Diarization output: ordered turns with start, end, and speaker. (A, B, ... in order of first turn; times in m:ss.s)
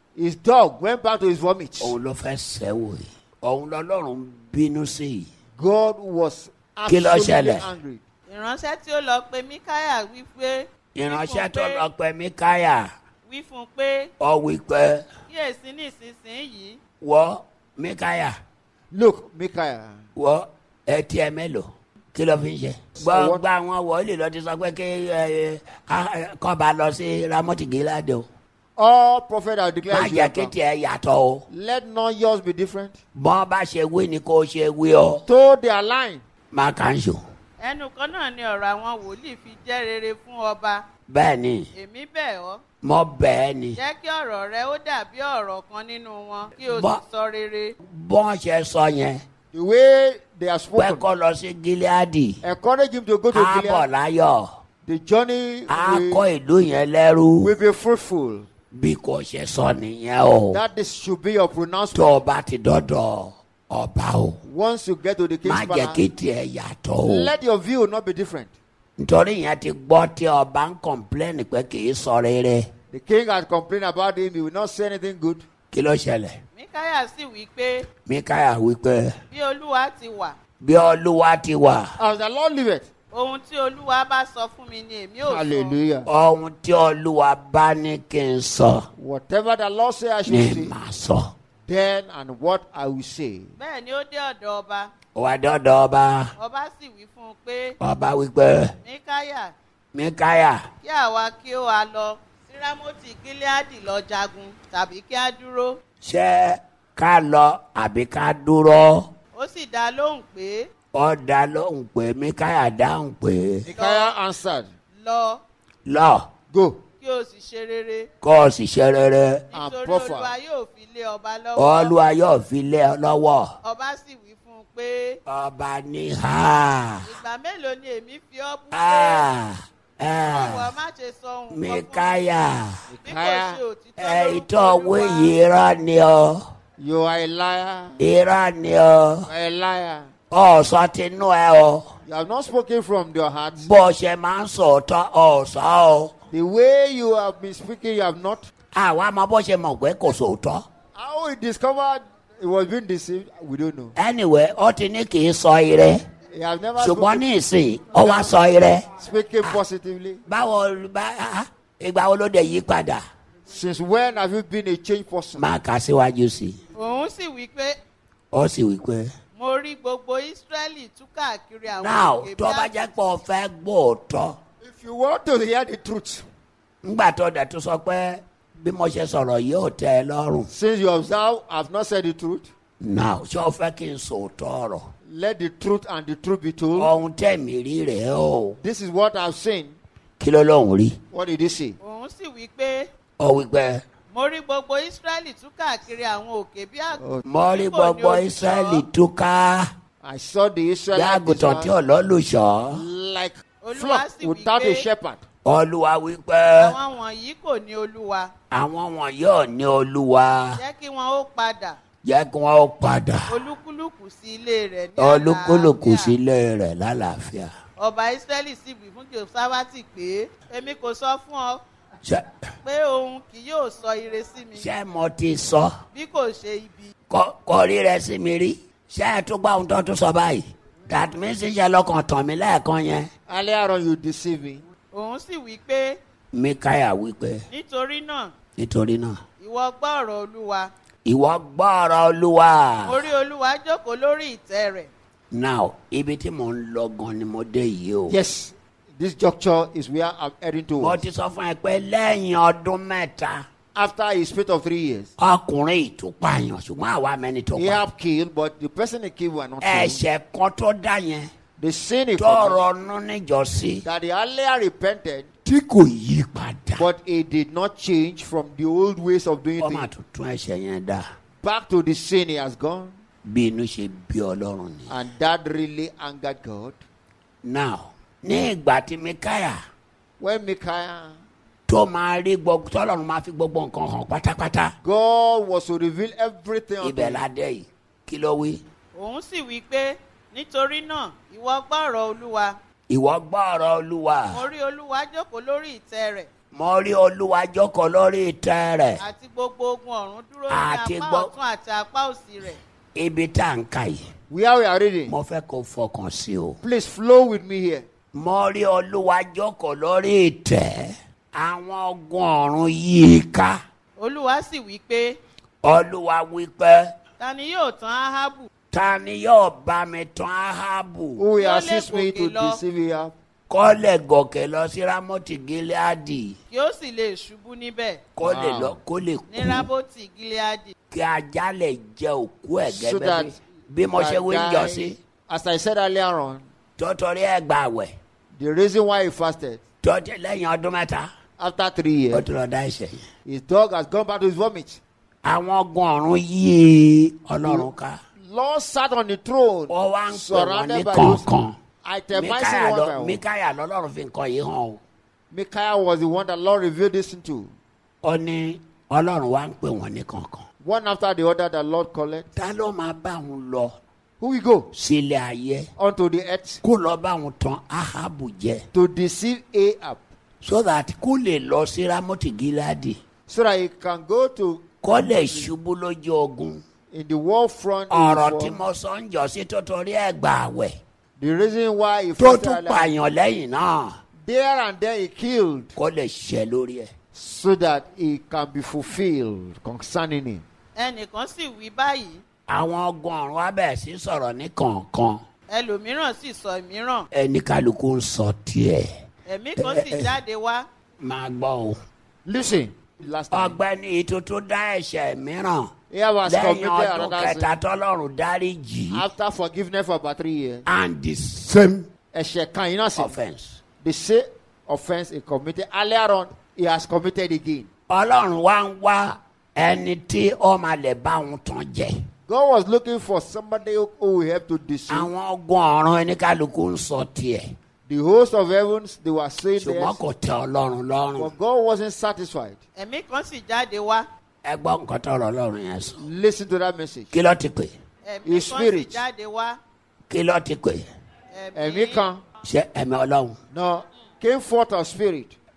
0:00.2-0:01.9 A
0:01.8-0:05.3 B
0:05.6-0:08.0 A
0:06.9-0:07.7 B
0:08.3-0:11.8 C
0:10.9-0:12.9 B
0:13.2-0:14.1 C
0:14.2-0:15.0 B
0:15.3-0:16.8 C
0:17.0-0:18.3 B
0:18.9-0:20.0 A
0:20.2-0:28.3 B
0:23.0-0:23.5 A
0:28.8-0:30.5 A
0:29.9-0:31.4 B
0:31.5-0:33.0 A
0:33.1-0:35.2 B
0:35.3-0:36.2 A
0:36.5-0:37.2 B
0:37.6-0:40.8 C
0:41.1-0:41.7 B
0:41.7-0:42.6 C
0:42.8-0:43.8 B
0:43.7-0:47.7 C
0:46.6-0:47.0 B
0:47.9-0:49.2 B
0:49.5-0:51.0 A
0:50.8-0:52.4 B
0:52.4-0:53.9 A
0:53.3-0:54.5 B
0:54.8-0:56.2 A
0:55.7-0:57.5 B
0:57.4-0:58.5 A
0:58.7-1:00.6 B
1:00.5-1:02.2 A
1:01.9-1:04.4 B
1:04.4-1:06.0 A
1:05.4-1:07.3 B
1:07.0-1:08.5 A
1:09.0-1:12.7 B
1:12.9-1:15.4 A
1:15.7-1:16.3 B
1:16.5-1:17.9 C
1:18.0-1:19.1 B
1:19.3-1:20.4 C
1:20.6-1:21.9 B
1:22.0-1:22.9 A
1:23.1-1:25.8 C
1:25.2-1:26.1 A
1:26.0-1:28.8 B
1:29.0-1:30.7 A
1:30.2-1:31.3 B
1:31.7-1:33.5 A
1:33.6-1:34.9 C
1:35.1-1:36.3 B
1:36.4-1:37.8 C
1:37.8-1:38.7 B
1:38.8-1:39.5 C
1:39.9-1:40.6 B
1:40.8-1:45.8 C
1:46.0-1:49.1 B
1:49.3-1:50.7 C
1:50.9-1:53.6 B
1:53.6-1:54.7 A
1:53.7-1:54.2 C
1:55.0-1:55.4 C
1:55.8-1:56.3 B
1:56.5-1:56.8 A
1:57.0-1:58.1 C
1:58.2-1:59.4 B
1:59.5-2:01.9 C
1:59.5-2:00.3 A
2:01.6-2:03.5 B
2:03.6-2:05.2 C
2:05.2-2:07.0 B
2:07.0-2:09.2 C
2:08.7-2:10.7 B
2:10.2-2:12.3 C
2:11.5-2:12.7 B
2:12.9-2:13.6 A
2:13.0-2:15.4 C
2:14.0-2:16.4 B
2:16.8-2:18.0 A
2:18.0-2:19.2 B
2:19.3-2:20.1 A
2:20.3-2:21.9 B
2:22.0-2:23.8 A
2:23.6-2:26.1 B
2:26.3-2:28.5 A
2:28.7-2:30.6 B
2:30.9-2:33.9 A
2:34.0-2:36.0 B
2:36.3-2:37.2 A
2:36.8-2:38.8 B
2:38.0-2:38.4 A
2:39.0-2:40.2 A
2:40.3-2:43.0 B
2:43.5-2:45.5 A
2:45.3-2:46.6 B
2:46.7-2:47.8 C
2:48.3-2:49.1 B
2:49.4-2:53.1 C
2:51.8-2:54.4 B
2:54.6-2:56.2 A
2:56.8-3:00.5 B
3:00.5-3:02.5 A
3:02.8-3:04.8 B
3:05.1-3:06.9 A
3:06.7-3:08.6 B
3:08.6-3:09.8 A
3:10.2-3:11.0 B
3:11.1-3:11.8 A
3:11.8-3:12.9 C
3:13.2-3:13.8 B
3:14.1-3:17.0 C
3:17.0-3:17.2 A
3:17.2-3:19.7 B
3:17.6-3:18.8 C
3:20.0-3:21.7 A
3:20.9-3:22.8 B
3:22.7-3:25.2 A
3:23.6-3:24.8 C
3:25.4-3:26.8 B
3:26.5-3:28.3 C
3:28.5-3:30.6 B
3:30.6-3:31.8 C
3:32.0-3:33.3 B
3:33.3-3:36.2 C
3:35.0-3:37.5 B
3:37.8-3:41.6 C
3:42.6-3:44.7 C
3:44.6-3:45.7 B
3:45.9-3:46.9 C
3:47.1-3:53.1 B
3:53.3-3:54.6 A
3:54.9-3:56.0 C
3:56.3-3:57.4 B
3:57.5-3:58.3 C
3:58.6-3:59.2 B
3:59.4-4:00.7 C
4:01.0-4:03.0 B
4:02.8-4:04.9 C
4:05.3-4:08.2 B
4:08.1-4:11.0 A
4:10.8-4:13.4 B
4:13.7-4:15.1 A
4:15.2-4:17.8 B
4:17.5-4:20.0 A
4:19.6-4:21.3 B
4:21.6-4:22.6 A
4:22.2-4:23.8 B
4:23.8-4:25.3 A
4:25.4-4:26.9 B
4:26.7-4:29.9 A
4:29.6-4:31.0 B
4:31.4-4:32.9 A
4:33.2-4:34.9 B
4:34.9-4:36.8 A
4:37.4-4:39.6 B
4:40.2-4:41.2 A
4:41.7-4:44.7 B
4:44.8-4:47.2 A
4:46.8-4:48.6 B
4:48.9-4:52.6 C
4:52.9-4:54.4 B
4:54.3-4:56.3 C
4:56.5-4:59.0 B
4:59.0-5:02.6 C
5:00.5-5:01.3 B
5:02.9-5:04.0 B
5:04.3-5:05.2 A
5:05.1-5:06.6 B
5:06.6-5:07.8 A
5:08.1-5:13.6 B
5:14.0-5:15.2 C
5:15.6-5:16.9 B
5:17.2-5:18.5 C
5:18.7-5:21.2 B
5:21.2-5:23.1 A
5:21.4-5:22.6 C
5:23.5-5:26.4 B
5:26.5-5:28.0 C
5:28.2-5:29.7 B
5:28.2-5:28.8 A
5:29.3-5:30.7 C
5:30.9-5:35.0 B
5:32.6-5:33.4 A
5:33.9-5:36.4 A
5:36.8-5:37.9 B
5:38.3-5:39.6 A
5:39.8-5:41.1 B
5:41.4-5:42.2 A
5:42.1-5:43.0 B
5:43.2-5:44.8 A
5:45.2-5:48.0 B
5:47.4-5:47.7 A
5:48.2-5:51.3 A
5:49.7-5:51.5 B
5:51.8-5:53.2 A
5:52.1-5:54.8 B
5:55.3-5:57.5 A
5:58.0-6:00.4 B
6:00.6-6:02.3 A
6:02.3-6:03.7 B
6:04.2-6:04.7 A
6:04.7-6:05.7 B
6:05.8-6:06.6 A
6:06.6-6:08.6 B
6:08.7-6:10.0 A
6:10.4-6:13.0 B
6:13.3-6:15.5 A
6:14.8-6:16.6 B
6:16.9-6:18.6 A
6:17.9-6:20.8 B
6:21.2-6:22.9 A
6:22.2-6:23.9 B
6:24.2-6:25.7 A
6:25.8-6:26.9 B
6:27.1-6:30.4 A
6:30.8-6:32.2 C
6:32.5-6:35.2 B
6:35.5-6:37.1 C
6:37.1-6:38.8 B
6:39.3-6:40.6 C
6:39.6-6:40.1 B
6:41.0-6:41.8 B
6:42.2-6:43.6 A
6:43.3-6:45.7 B
6:45.9-6:47.5 A
6:46.2-6:49.0 B
6:48.9-6:50.6 A
6:50.6-6:51.9 B
6:52.1-6:53.2 A
6:53.0-6:53.6 B
6:53.8-6:57.7 A
6:57.9-7:02.0 B
7:02.3-7:05.1 A
7:04.9-7:07.4 B
7:07.9-7:10.0 A
7:09.6-7:11.3 B
7:11.2-7:12.6 A
7:12.8-7:14.0 C
7:14.4-7:16.0 B
7:16.0-7:17.1 A
7:17.1-7:17.7 B
7:18.0-7:19.6 C
7:18.2-7:19.0 A
7:20.1-7:20.8 B
7:21.3-7:22.0 C
7:21.5-7:22.2 A
7:22.4-7:23.4 B
7:23.5-7:25.3 A